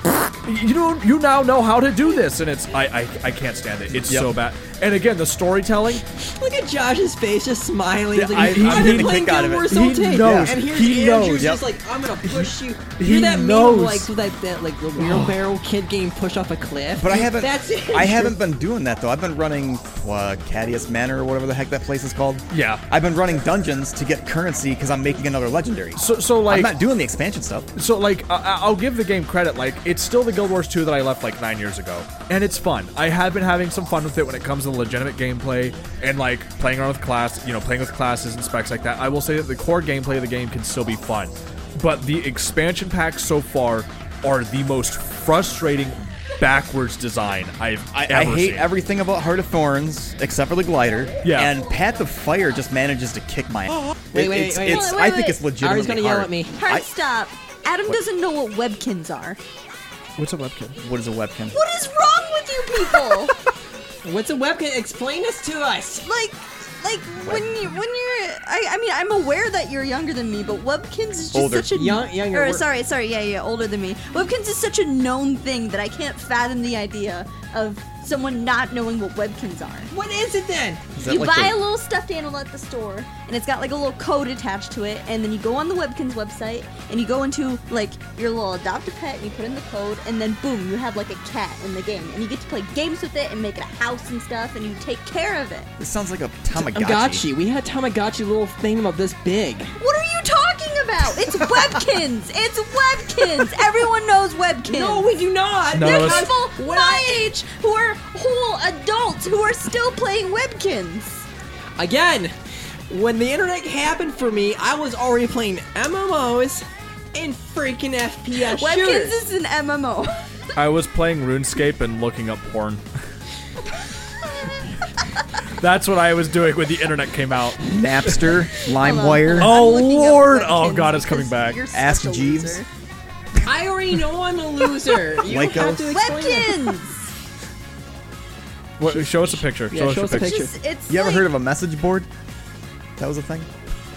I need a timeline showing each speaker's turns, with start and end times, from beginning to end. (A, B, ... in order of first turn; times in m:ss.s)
0:00.4-0:06.0 A
0:04.0-0:04.3 B
0:06.3-0:18.4 C
0:08.1-0:10.6 B
0:08.3-0:11.6 A
0:11.4-0:11.6 B
0:12.2-0:14.1 A
0:17.0-0:27.7 B
0:22.5-0:22.8 A
0:26.0-0:26.8 A
0:27.8-0:48.7 A
0:47.9-0:56.9 B
0:51.2-0:51.5 A
0:54.1-0:55.0 C
0:54.6-0:55.4 D
0:55.6-0:56.6 C
0:56.6-0:59.4 D
1:00.2-1:00.8 A
1:00.8-1:01.6 B
1:01.5-1:03.3 D
1:04.0-1:06.1 C
1:06.0-1:19.9 D
1:11.3-1:12.0 B
1:11.7-1:12.7 C
1:19.9-1:20.8 C
1:21.0-1:21.6 B
1:21.0-1:35.7 D
1:35.8-1:37.2 B
1:36.6-1:39.7 C
1:39.8-1:45.1 D
1:44.7-1:47.3 C
1:45.7-1:46.3 A
1:45.7-1:51.3 D
1:51.8-1:52.4 C
1:52.9-1:59.2 C
1:58.4-2:00.2 D
2:00.6-2:02.8 A
2:05.6-2:08.2 A
2:07.6-2:09.6 B
2:08.8-2:12.7 D
2:09.4-2:11.6 A
2:11.7-2:12.6 B
2:13.4-2:16.7 C
2:15.2-2:16.0 B
2:15.2-2:17.1 D
2:18.8-2:20.4 A
2:18.9-2:20.5 C
2:20.1-2:21.3 D
2:20.9-2:22.1 B
2:23.0-2:23.5 B